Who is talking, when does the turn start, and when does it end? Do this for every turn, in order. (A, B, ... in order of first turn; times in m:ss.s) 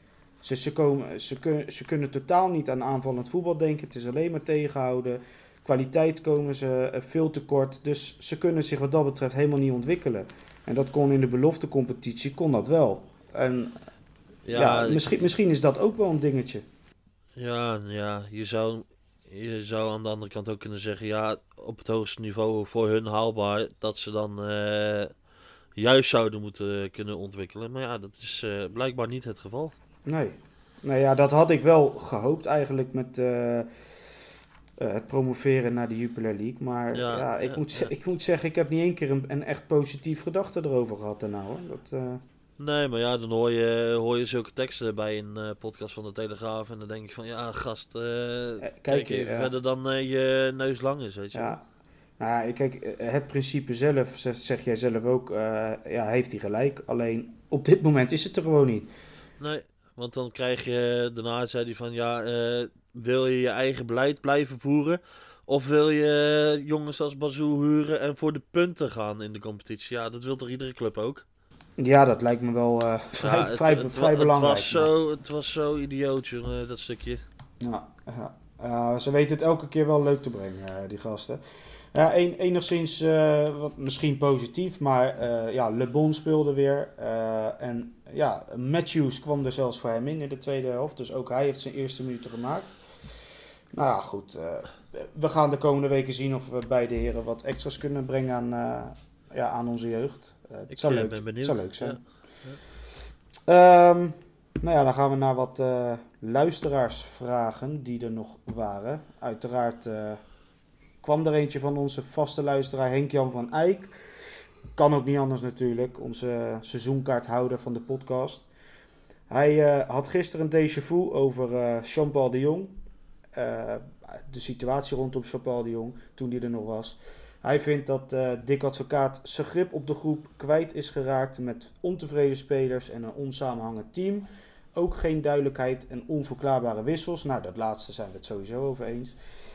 0:00.4-0:13.8 A
0:14.4-0:15.2 B
0:14.5-0:16.6 A
0:17.4-0:25.2 B
0:25.8-0:29.7 B
0:30.0-0:34.2 A
0:34.8-0:42.2 A
0:36.9-0:37.9 B
0:42.6-0:51.6 B
0:48.6-0:49.5 A
0:51.3-0:51.6 A
0:52.2-0:58.9 A
0:59.4-1:11.2 B
1:11.8-1:14.9 A
1:13.2-1:17.2 B
1:17.6-1:21.4 A
1:21.9-1:32.8 A
1:33.7-1:42.0 A
1:40.7-1:42.6 B
1:43.5-1:50.2 A
1:51.0-1:53.9 A
1:54.8-1:58.4 A
1:59.3-2:02.8 A
2:03.3-2:19.2 A